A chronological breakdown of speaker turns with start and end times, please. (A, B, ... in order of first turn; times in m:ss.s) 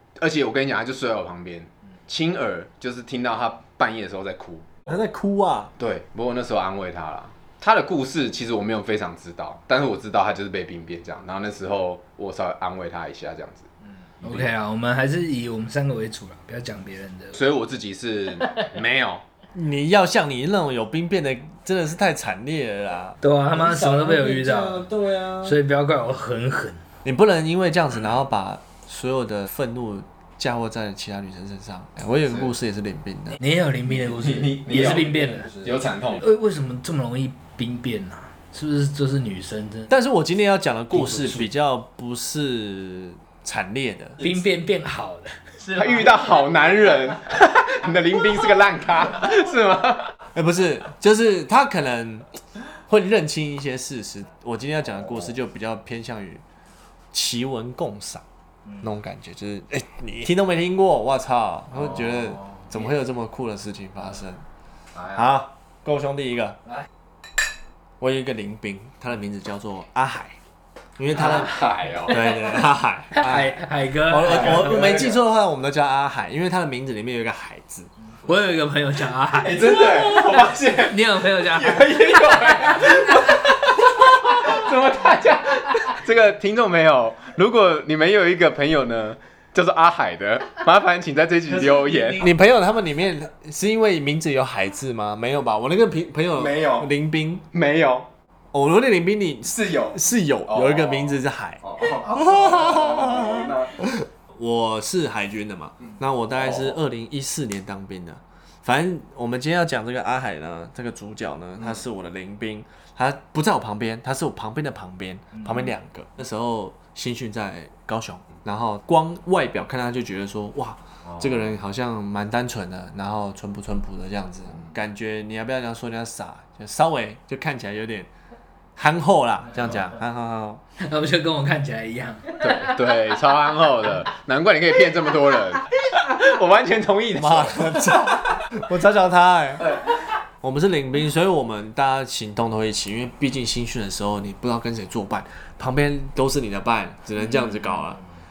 0:00.2-0:04.8 A
0:04.9-0:05.7 B
0:05.8-0:13.7 A
0:14.2-0:17.4 C
0:17.3-0:19.2 A
0:19.5-0:25.6 B
0:23.2-0:24.9 C
0:25.4-0:26.8 C
0:27.0-0:33.4 B
0:33.4-0:35.5 C
0:33.9-0:36.2 A
0:36.2-0:39.9 C
0:39.9-0:44.2 B
0:40.9-0:41.5 C
0:44.2-0:46.2 C
0:45.7-0:50.1 A
0:50.3-0:52.2 B
0:52.9-0:56.4 B
0:57.1-0:58.2 B
0:58.8-1:04.4 B
1:05.0-1:05.2 A
1:05.1-1:06.6 B
1:08.0-1:10.4 B
1:11.0-1:17.9 B
1:11.1-1:12.3 A
1:13.1-1:14.9 C
1:14.3-1:15.2 A
1:18.2-1:23.3 C
1:19.4-1:32.3 A
1:32.0-1:37.4 B
1:36.3-1:36.9 A
1:37.5-1:38.1 A
1:38.5-2:08.1 B
1:39.4-1:40.0 A
1:40.5-1:43.8 A
1:45.8-1:46.8 A
2:08.8-2:10.6 B
2:10.8-2:12.7 C
2:12.4-2:18.2 A
2:17.2-2:19.8 B
2:20.4-2:28.0 B